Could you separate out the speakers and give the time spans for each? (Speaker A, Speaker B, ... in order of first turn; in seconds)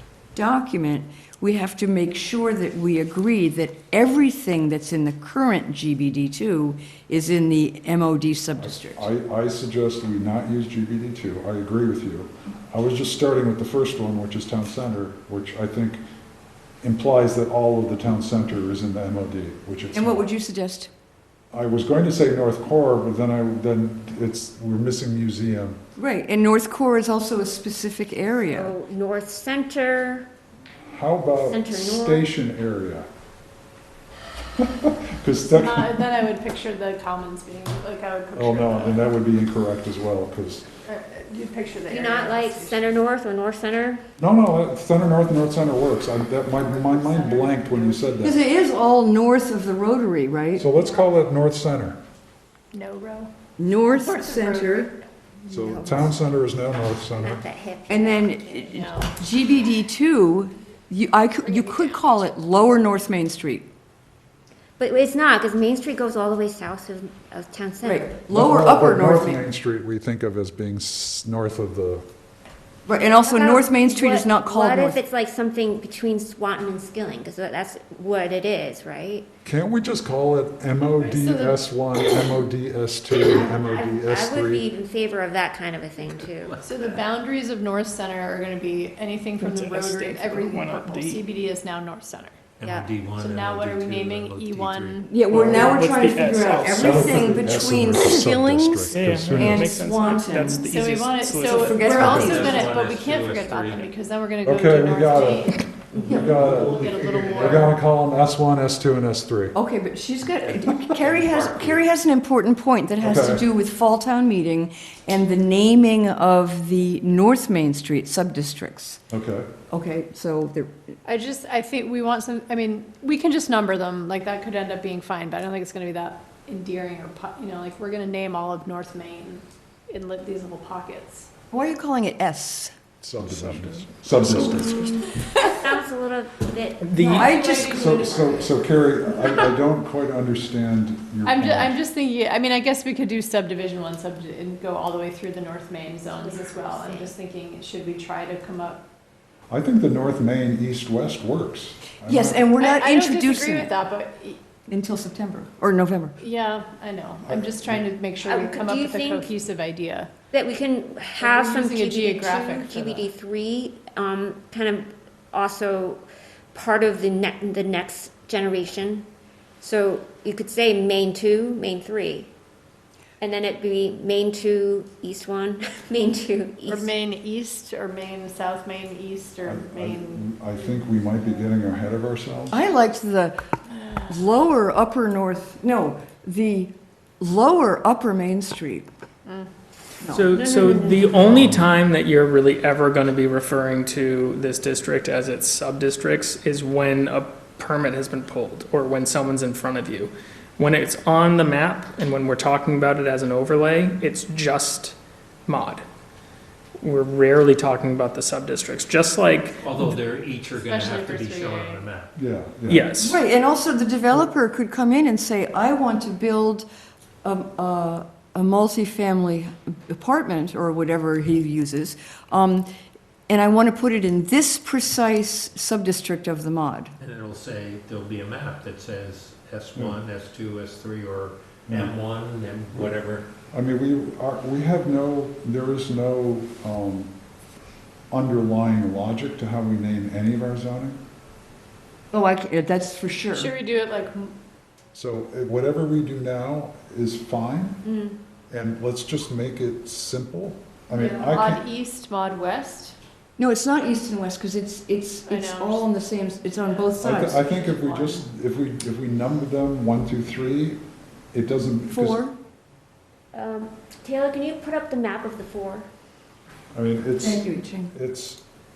Speaker A: 0.3-9.1, 19.9-20.9, 26.0-28.7, 48.2-50.7, 53.6-54.9, 57.9-63.7, 67.8-69.4, 72.8-75.0, 95.1-100.6, 101.5-102.6, 109.5-119.0, 119.7-120.7, 131.5-132.7, 134.2-134.6, 137.1-138.1, 152.0-153.7, 154.7-156.1, 182.5-183.4, 184.1-188.9, 190.0-190.3, 213.0-216.7, 217.2-222.7, 223.3-226.9, 242.1-243.5, 253.4-257.4, 261.9-262.3, 267.2-267.9
Speaker B: 8.6-16.0, 16.8-20.3, 21.5-25.8, 30.9-33.1, 34.6-36.1, 38.3-40.6, 44.2-48.4, 50.6-52.0, 55.5-57.4, 68.3-72.0, 79.4-84.6, 95.4-95.8, 96.7-99.7, 104.4-105.5, 106.1-106.8, 107.4-109.5, 113.0-113.4, 119.1-119.5, 133.0-135.1, 137.7-141.8, 149.5-152.4, 157.2-157.8, 179.4-182.6, 191.2-191.6, 212.2-212.9, 233.5-237.1, 238.1-241.0, 244.9-247.8, 248.5-251.6, 257.0-260.8, 261.3-262.2, 266.7-268.4
Speaker C: 28.5-30.3, 31.4-32.3, 41.9-44.0, 55.5-56.2, 57.2-58.5, 64.8-68.2, 73.0-79.3, 83.2-86.5, 92.6-92.9, 134.5-134.9, 135.4-138.0, 146.0-147.1, 158.2-159.3, 160.3-166.0, 166.5-169.1, 169.6-172.3, 173.2-176.9, 190.3-191.2, 247.8-248.2, 251.0-251.3, 263.3-265.9
Speaker D: 35.5-39.0, 40.9-42.8, 46.5-48.2, 52.7-53.3, 53.9-54.8, 58.7-59.1, 61.5-62.0, 81.0-81.6, 86.6-92.4, 93.2-95.0, 100.6-107.7, 121.0-131.3, 135.2-135.5, 137.0-139.5, 141.2-148.8, 152.6-154.4, 156.2-160.1, 161.2-163.1, 176.7-180.3, 210.6-211.8, 243.3-244.3, 250.9-252.9, 255.2-255.8, 256.6-258.2
Speaker E: 86.3-87.0, 92.6-95.6, 102.0-104.0, 105.9-107.7, 110.4-111.8, 209.6-212.1, 227.0-233.3
Speaker F: 89.3-91.2, 95.3-97.4, 98.9-102.0, 133.2-134.4, 136.8-137.3, 190.1-204.9, 205.5-205.8, 206.8-209.9, 212.7-213.2